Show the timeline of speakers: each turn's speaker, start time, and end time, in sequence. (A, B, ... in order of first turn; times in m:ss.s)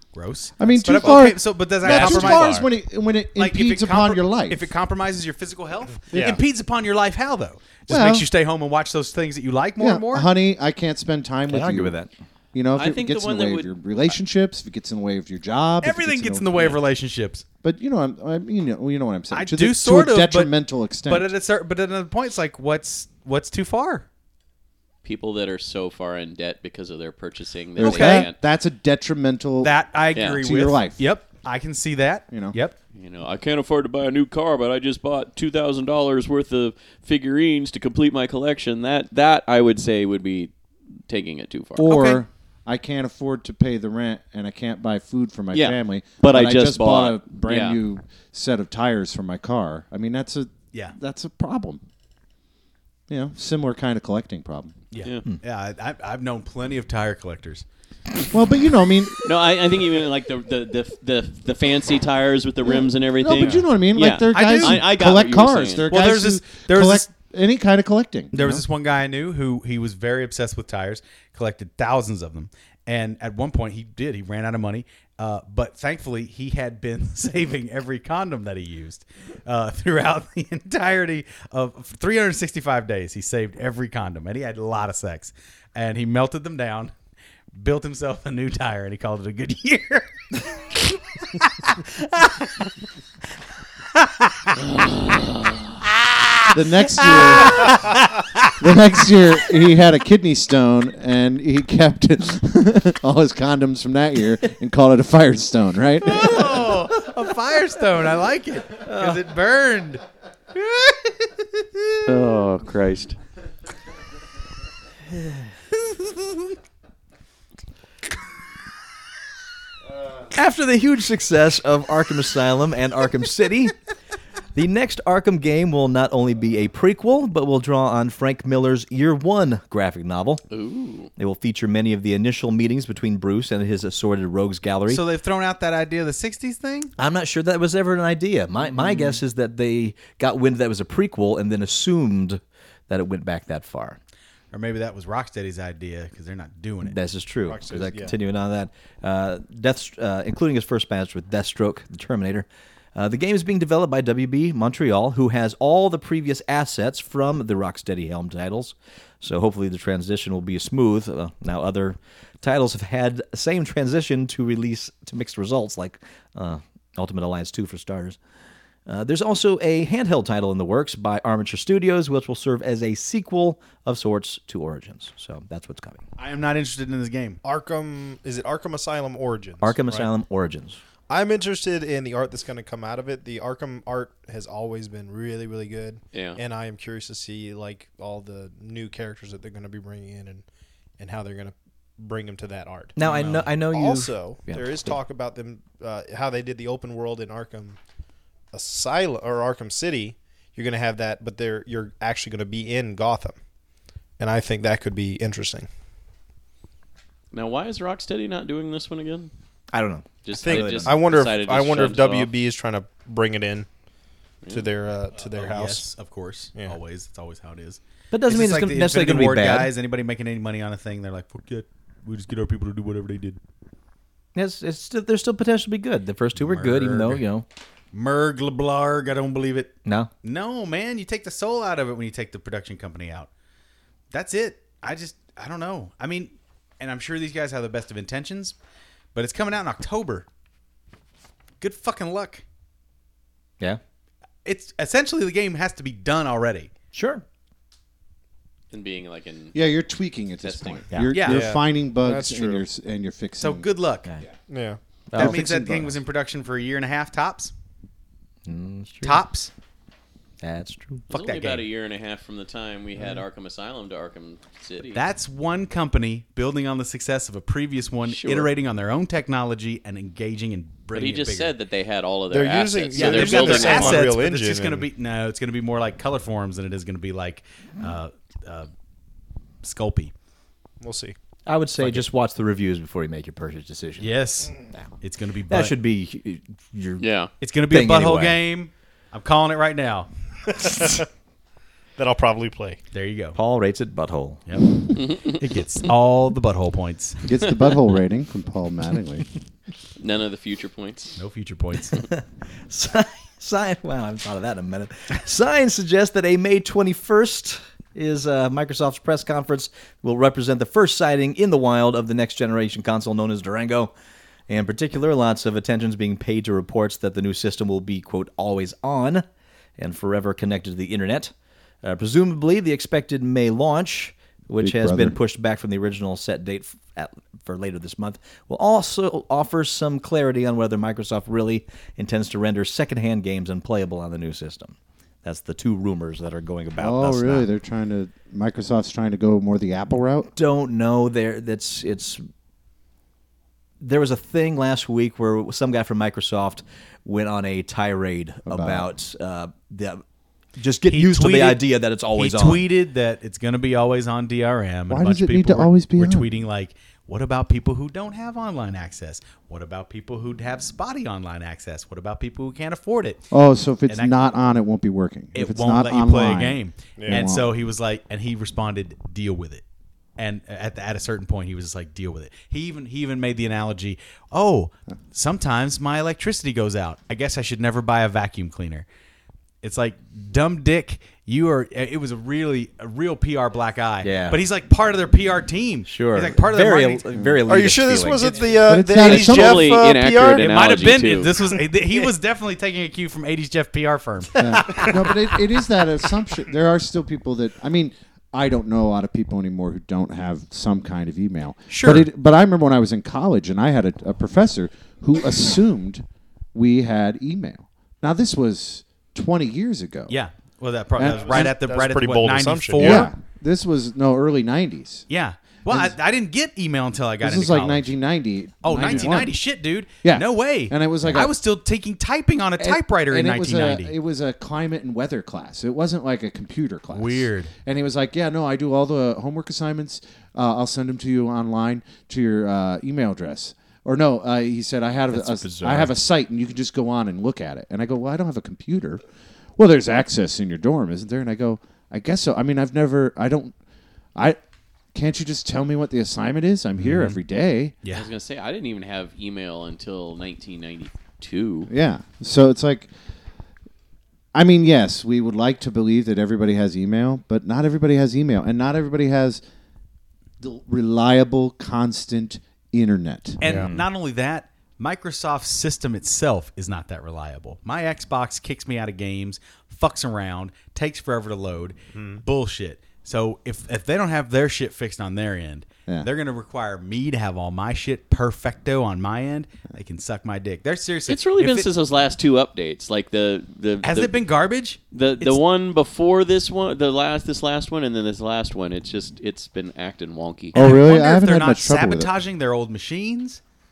0:00.1-0:02.7 A
0:00.6-0:04.7 B
0:01.9-0:02.6 C
0:03.3-0:10.3 A
0:06.1-0:06.4 D
0:06.1-0:06.4 B
0:07.9-0:08.3 B
0:09.8-0:11.9 B
0:11.5-0:12.1 C
0:12.5-0:16.8 B
0:12.8-0:13.7 E
0:15.8-0:17.4 A
0:17.6-0:21.3 B
0:19.3-0:20.5 A
0:21.1-0:24.1 A
0:25.0-0:28.4 E
0:27.8-0:31.1 B
0:27.8-0:28.3 A
0:29.6-0:32.8 A
0:30.1-0:30.4 E
0:32.3-0:32.6 B
0:33.0-0:40.5 E
0:41.1-0:41.9 E
0:41.8-0:42.2 A
0:41.8-0:51.8 B
0:45.5-0:47.8 E
0:53.1-0:54.8 B
0:54.9-0:57.6 A
0:58.3-0:59.3 B
0:59.2-1:05.9 E
1:02.6-1:08.7 B
1:03.4-1:03.7 D
1:04.3-1:04.9 A
1:05.8-1:07.1 A
1:08.3-1:26.9 A
1:27.6-1:32.7 A
1:34.0-1:34.6 A
1:36.4-1:38.5 A
1:36.5-1:38.0 B
1:38.6-1:46.8 B
1:46.0-1:50.0 A
1:48.9-1:49.2 C
1:50.6-1:51.4 A
1:52.1-1:53.2 E
1:55.2-1:55.4 C
2:00.3-2:03.8 C
2:04.5-2:10.4 C
2:10.5-2:11.1 E
2:11.2-2:15.0 C
2:14.9-2:16.9 A
2:17.0-2:24.0 C
2:24.5-2:27.0 A
2:26.9-2:48.2 C
2:27.5-2:28.2 D
2:48.9-2:56.0 C
2:56.2-2:57.4 A
2:57.4-3:00.1 D
2:59.6-3:00.8 C
3:01.1-3:10.4 D
3:06.1-3:06.4 E
3:11.0-3:17.8 D
3:13.0-3:15.0 C
3:13.0-3:13.5 A
3:18.5-3:23.4 D
3:24.2-3:25.7 D
3:27.3-3:29.3 E
3:29.7-3:31.0 C
3:30.2-3:32.3 E
3:30.4-3:33.7 D
3:34.5-3:35.9 D
3:35.4-3:43.4 A
3:38.1-3:39.7 C
3:44.4-3:47.4 C
3:46.4-3:47.2 A
3:47.9-3:53.3 A
3:49.9-3:50.1 C
3:54.1-3:58.6 A
3:59.1-4:00.3 A
4:01.6-4:02.4 A
4:04.4-4:06.7 A
4:06.9-4:07.2 C
4:08.7-4:09.7 E
4:09.5-4:13.7 B
4:10.4-4:10.8 E
4:11.1-4:11.5 A
4:11.3-4:12.6 D
4:13.4-4:14.1 A
4:14.5-4:14.8 D
4:15.1-4:15.4 C
4:15.2-4:16.0 B
4:15.2-4:17.5 A
4:18.4-4:19.2 C
4:19.0-4:19.5 A
4:20.4-4:21.1 C
4:21.1-4:21.6 A
4:21.1-4:25.1 E
4:24.9-4:31.5 A
4:28.0-4:28.5 E
4:30.9-4:34.1 E
4:32.3-4:34.9 D
4:32.9-4:38.7 A
4:39.6-4:40.1 A
4:40.8-4:41.2 D
4:41.5-4:44.1 C
4:44.0-4:45.7 A
4:45.5-4:47.0 C
4:47.0-4:47.3 E
4:47.4-4:50.1 A
4:47.7-4:48.4 C
4:50.5-4:51.1 D
4:52.0-4:52.8 D
4:52.9-4:53.4 A
4:53.4-4:54.4 C
4:54.5-4:57.2 A
4:55.0-4:55.4 E
4:57.2-4:59.3 B
5:00.0-5:01.2 E
5:01.2-5:02.0 A
5:02.0-5:13.9 C
5:14.5-5:19.2 C
5:19.8-5:37.5 C
5:24.6-5:25.2 B
5:36.8-5:40.3 B
5:40.4-5:42.2 C
5:43.8-5:50.0 C
5:48.5-5:48.9 B
5:50.6-5:52.6 C
5:50.9-5:51.6 A
5:52.1-6:03.2 A
5:54.9-5:56.3 B
6:03.3-6:07.5 B
6:03.9-6:04.2 A
6:05.3-6:09.6 A
6:07.0-6:07.2 D
6:10.2-6:18.9 A
6:19.6-6:27.0 A
6:24.0-6:24.4 C
6:25.9-6:28.4 C
6:27.5-6:30.5 D
6:28.7-6:29.7 B
6:29.0-6:31.3 E
6:30.4-6:35.2 A
6:34.4-6:50.1 B
6:41.7-6:42.1 A
6:50.1-6:53.1 A
6:51.0-6:51.5 B
6:51.0-6:53.1 D
6:52.8-6:55.1 B
6:55.1-6:57.9 A
6:55.7-6:56.0 B
6:57.2-6:59.4 B
6:58.6-7:04.0 A
6:58.8-6:59.2 D
7:00.0-7:01.4 B
7:02.6-7:19.0 B
7:06.9-7:07.5 A
7:15.1-7:16.0 C
7:19.6-7:23.5 B
7:24.9-7:27.8 B
7:26.8-7:27.2 A
7:27.8-7:28.1 A
7:27.9-7:31.7 E
7:31.7-7:32.9 B
7:34.3-7:39.4 B
7:40.4-7:43.4 B
7:43.4-8:01.7 A
7:43.4-7:43.9 C
7:52.0-7:52.2 D
8:01.1-8:04.2 E
8:03.8-8:05.4 A
8:04.9-8:10.7 E
8:10.5-8:12.1 B
8:10.5-8:13.4 A